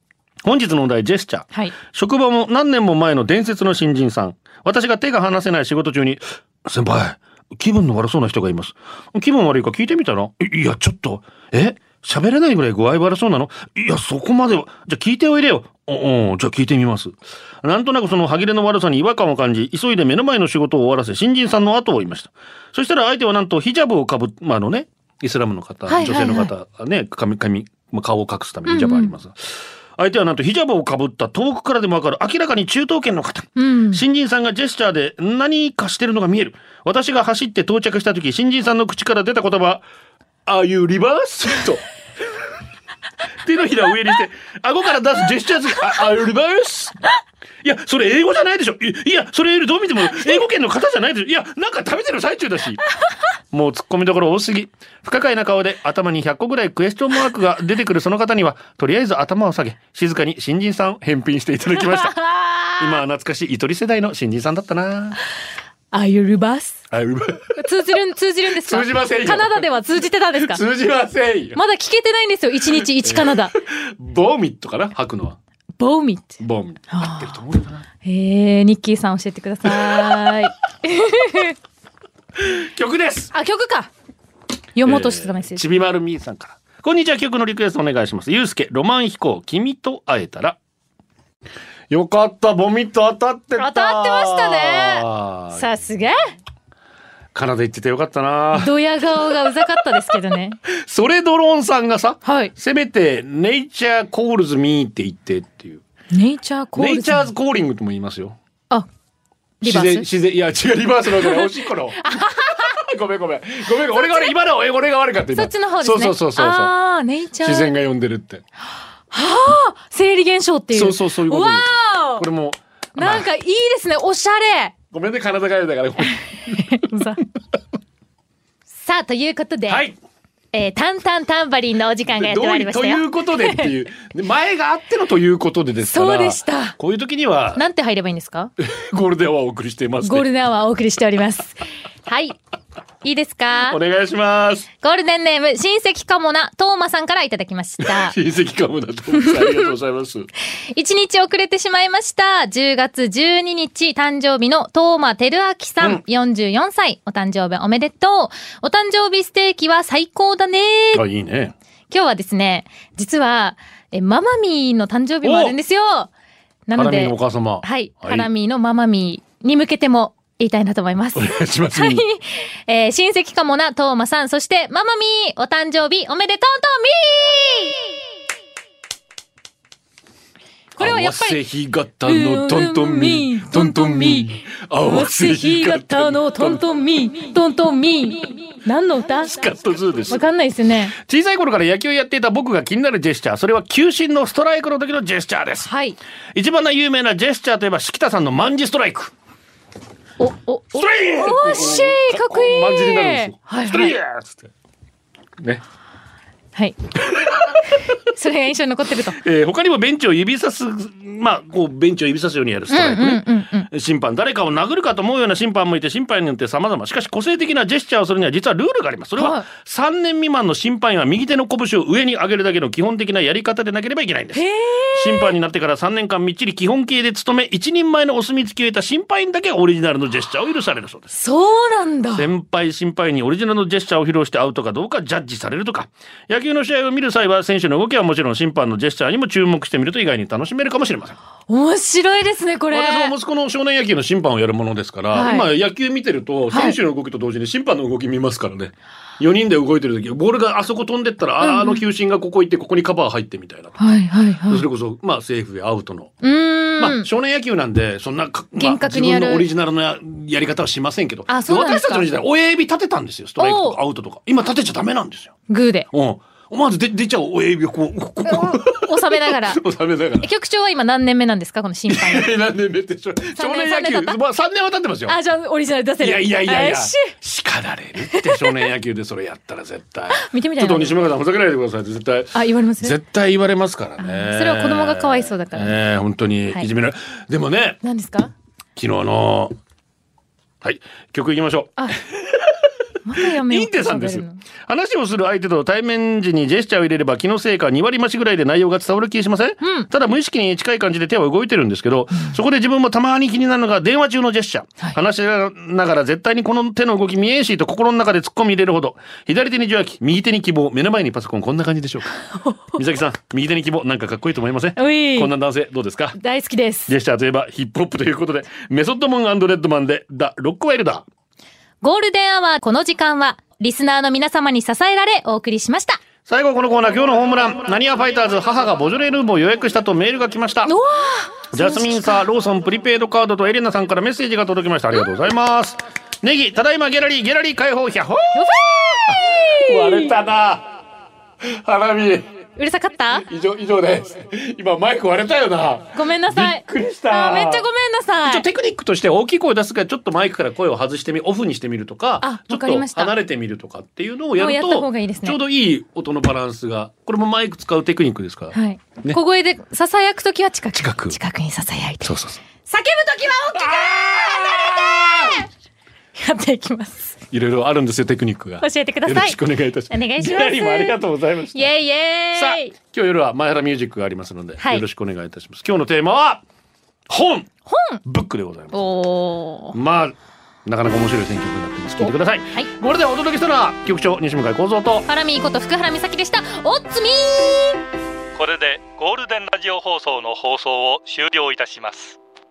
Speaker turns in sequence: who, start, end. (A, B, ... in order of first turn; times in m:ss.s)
0:00.4-0:39.8 A
0:25.9-0:26.5 B
0:28.7-0:29.1 B
0:33.6-0:34.0 B
0:40.5-0:42.5 A
0:43.4-0:47.0 A
0:47.6-0:52.8 A
0:53.5-1:02.2 A
1:01.8-1:02.9 B
1:02.8-1:05.2 A
1:05.9-1:06.8 B
1:06.9-1:07.7 A
1:07.6-1:10.6 B
1:08.6-1:09.6 A
1:10.4-1:11.6 A
1:11.6-1:13.5 B
1:13.0-1:15.4 A
1:15.8-1:16.4 B
1:16.4-1:17.9 A
1:16.9-1:17.4 B
1:18.0-1:21.6 B
1:19.6-1:20.3 A
1:22.4-1:23.3 A
1:23.3-1:23.9 B
1:24.8-1:25.6 B
1:24.8-1:30.6 A
1:31.9-1:35.7 A
1:33.6-1:36.2 B
1:37.3-1:38.7 A
1:38.5-1:40.6 B
1:40.7-1:45.8 A
1:42.2-1:42.5 B
1:46.1-1:47.3 B
1:46.8-1:48.4 A
1:49.6-1:50.0 B
1:49.6-1:56.7 A
1:51.2-1:51.5 B
1:52.0-1:52.8 B
1:53.8-1:54.3 B
1:55.3-1:57.7 B
1:57.4-1:58.4 A
1:59.1-2:02.2 B
2:00.7-2:03.2 A
2:03.0-2:04.8 B
2:04.9-2:06.9 A
2:06.6-2:07.2 B
2:08.8-2:09.9 B
2:09.7-2:10.0 A
2:10.5-2:13.7 B
2:12.1-2:17.6 A
2:15.8-2:16.8 B
2:17.6-2:18.5 B
2:18.6-2:20.3 A
2:20.0-2:22.4 B
2:23.0-2:23.8 B
2:23.6-2:24.7 A
2:24.8-2:28.2 B
2:27.8-2:30.3 A
2:29.2-2:29.7 B
2:30.7-2:41.0 B
2:40.9-2:41.6 A
2:41.9-2:46.1 B
2:45.2-2:45.6 A
2:46.7-2:57.8 B
2:46.7-2:48.3 A
2:51.2-2:52.0 A
3:00.8-3:01.4 B
3:00.8-3:06.6 A
3:02.0-3:04.3 B
3:04.8-3:09.5 B
3:09.2-3:10.2 A
3:10.1-3:10.9 B
3:10.9-3:15.7 A
3:15.6-3:16.0 B
3:16.4-3:19.1 A
3:20.2-3:24.0 B
3:20.7-3:24.5 A
3:27.2-3:27.6 A
3:28.0-3:29.2 B
3:29.2-3:51.1 A
3:32.7-3:33.7 B
3:39.2-3:39.5 B
3:44.3-3:45.3 B
3:51.1-3:52.3 B
3:52.1-4:01.2 A
4:01.5-4:03.2 B
4:02.7-4:13.8 A
4:05.1-4:05.5 B
4:06.5-4:06.8 B
4:11.4-4:11.8 B
4:13.8-4:14.6 B
4:14.5-4:16.1 A
4:16.2-4:17.1 B
4:16.8-4:25.4 A
4:18.6-4:19.5 B
4:21.3-4:22.1 B
4:23.4-4:23.8 B
4:25.5-4:25.9 B
4:25.9-4:30.3 A
4:28.2-4:29.6 B
4:30.2-4:32.4 B
4:31.9-4:35.2 A
4:33.4-4:34.2 B
4:35.1-4:37.1 B
4:36.0-4:47.8 A
4:38.1-4:38.6 B
4:40.1-4:41.0 B
4:42.3-4:43.0 B
4:44.0-4:45.8 B
4:47.8-4:48.3 B
4:48.8-4:49.6 A
4:50.6-5:12.2 A
4:53.0-4:54.4 B
4:59.6-4:59.9 B
5:12.3-5:12.8 B
5:12.7-5:16.2 A
5:14.8-5:15.3 B
5:16.2-5:16.9 B
5:16.9-5:21.1 A
5:21.8-5:26.0 B
5:26.2-5:30.7 A
5:30.6-5:32.2 B
5:31.5-5:38.4 A
5:38.3-5:40.2 B
5:39.1-5:40.8 A
5:41.4-5:42.3 A
5:42.6-5:43.2 B
5:43.2-5:47.6 A
5:45.9-5:48.4 B
5:48.2-5:59.2 A
5:52.2-5:53.1 B
5:54.4-5:55.4 B
5:58.5-6:02.1 B
6:00.7-6:01.2 A
6:02.0-6:02.4 A
6:02.6-6:05.4 B
6:03.5-6:05.4 A
6:06.2-6:07.2 B
6:07.3-6:11.7 A
6:08.6-6:11.0 B
6:11.5-6:12.8 B
6:12.4-6:16.4 A
6:17.1-6:17.5 A
6:17.7-6:18.0 B
6:18.0-6:18.8 A
6:18.7-6:19.8 B
6:19.7-6:25.1 A
6:22.0-6:22.7 B
6:25.1-6:27.8 B
6:28.4-6:32.2 C